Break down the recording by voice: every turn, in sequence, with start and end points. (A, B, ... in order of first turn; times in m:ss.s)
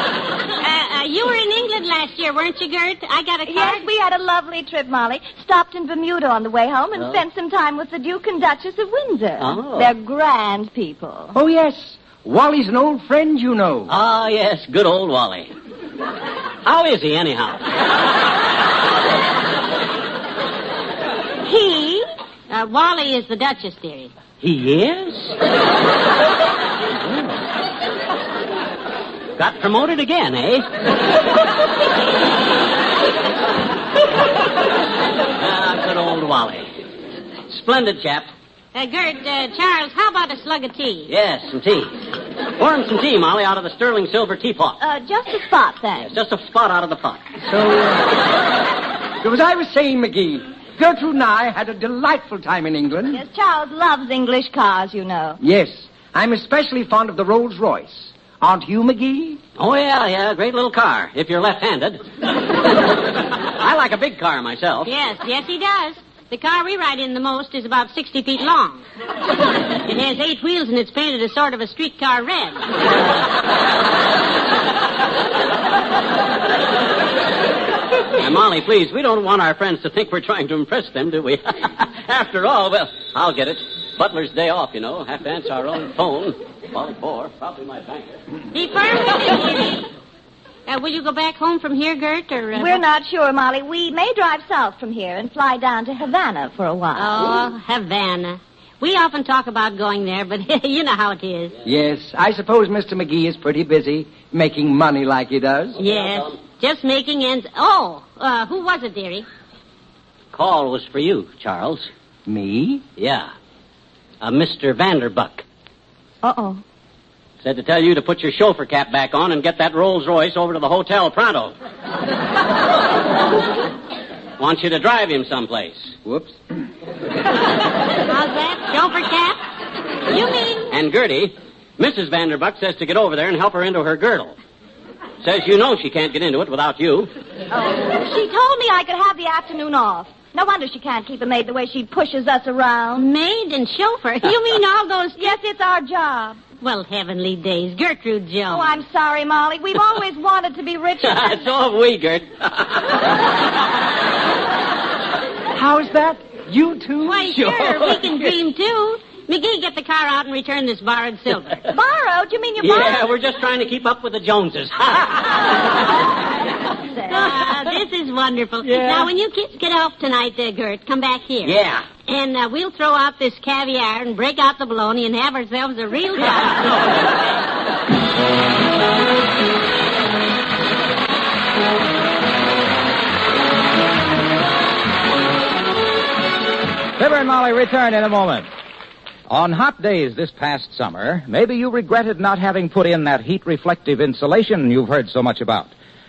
0:00.6-0:03.9 A
0:03.5-0:11.4 B
0:07.0-0:07.2 C
0:09.4-0:09.9 C
0:11.3-0:13.9 D
0:13.9-0:15.5 C
0:16.6-0:17.6 C
0:21.4-0:22.0 B
0:22.5-0:24.1 A
0:24.4-0:25.3 C
0:29.4-0:30.7 C
0:35.4-0:36.7 C
0:37.5-0:38.3 C
0:38.7-0:41.1 A
0:41.1-0:41.9 C
0:42.6-0:44.8 C
0:44.8-0:46.1 B
0:46.0-0:47.2 C
0:47.4-0:48.1 D
0:49.2-0:53.2 D
0:53.1-0:55.4 B
0:55.4-0:59.4 D
0:59.6-1:02.0 C
1:03.6-1:04.9 C
1:04.8-1:08.8 A
1:09.8-1:12.6 A
1:18.2-1:28.2 C
1:28.5-1:29.9 A
1:30.6-1:32.8 A
1:32.6-1:37.4 B
1:36.9-1:41.6 A
1:41.6-1:45.8 D
1:45.8-1:46.4 C
1:45.8-1:49.2 A
1:50.3-1:51.9 C
1:52.2-1:52.8 D
1:53.0-1:53.3 C
1:54.2-1:55.4 C
1:56.2-1:56.6 B
1:57.4-2:01.5 C
2:04.4-2:05.9 C
2:06.0-2:06.3 D
2:08.1-2:09.4 A
2:10.1-2:10.7 A
2:10.7-2:14.3 C
2:15.2-2:17.1 C
2:17.5-2:23.0 B
2:22.9-2:25.3 A
2:25.2-2:26.4 B
2:26.6-2:28.7 A
2:28.5-2:31.5 B
2:31.0-2:32.8 C
2:35.5-2:38.2 D
2:37.0-2:41.6 A
2:41.7-2:43.1 B
2:42.6-2:45.4 C
2:47.1-2:51.5 A
2:48.6-2:49.1 C
2:51.4-2:51.8 C
2:52.0-2:56.7 A
3:07.0-3:08.5 E
3:09.3-3:15.7 E